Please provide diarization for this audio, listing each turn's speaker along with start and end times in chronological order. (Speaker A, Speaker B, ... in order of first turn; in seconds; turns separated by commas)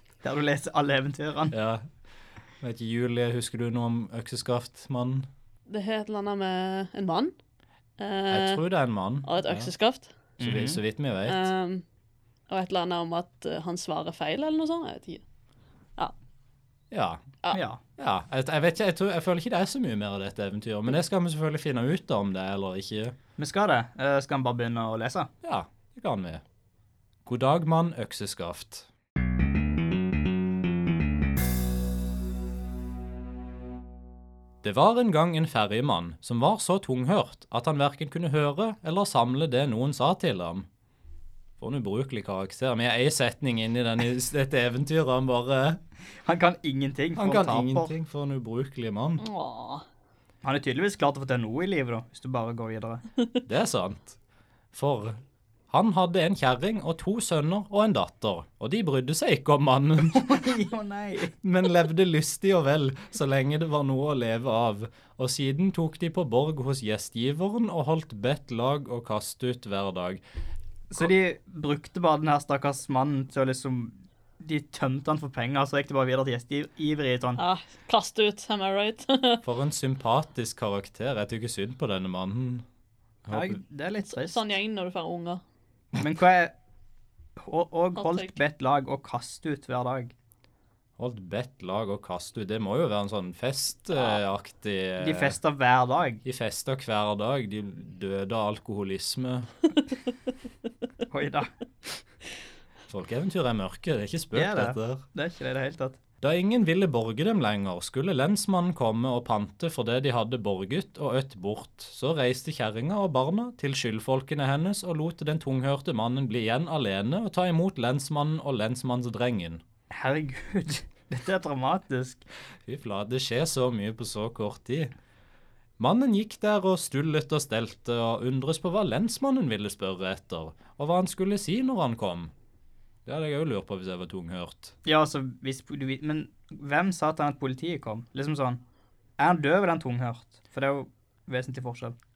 Speaker A: 0.2-1.5, Speaker B: 1.5-1.9, Speaker B: 2.6-5.3, Speaker C: 5.7-7.3, Speaker C: 8.0-8.6, Speaker B: 8.3-9.7, Speaker C: 9.2-10.1, Speaker A: 10.4-10.8, Speaker B: 10.4-11.5, Speaker C: 11.2-11.8, Speaker C: 12.5-15.2, Speaker B: 16.9-17.2, Speaker A: 17.5-17.8, Speaker B: 18.0-23.1, Speaker A: 23.4-25.3, Speaker B: 25.4-26.4, Speaker B: 27.2-28.9, Speaker B: 34.6-40.7, Speaker B: 41.6-45.8, Speaker A: 46.2-47.9, Speaker B: 47.1-49.2, Speaker C: 49.2-49.8, Speaker A: 50.4-53.0, Speaker B: 53.5-54.2, Speaker B: 54.7-60.4, Speaker A: 60.1-61.3, Speaker B: 61.4-70.2, Speaker A: 70.9-77.4, Speaker C: 77.4-79.4, Speaker B: 79.4-82.6, Speaker B: 83.2-83.6, Speaker A: 83.3-84.4, Speaker C: 84.1-85.4, Speaker A: 86.0-86.5, Speaker A: 87.4-90.1, Speaker C: 88.0-88.3, Speaker B: 91.0-95.4, Speaker A: 95.0-96.2, Speaker B: 96.2-99.5, Speaker A: 101.1-101.5, Speaker B: 102.9-105.0, Speaker A: 104.3-106.0, Speaker B: 106.2-119.6, Speaker A: 119.9-122.2, Speaker B: 122.7-124.9, Speaker B: 125.8-132.3, Speaker B: 133.1-134.7, Speaker A: 134.8-138.6, Speaker A: 139.2-141.9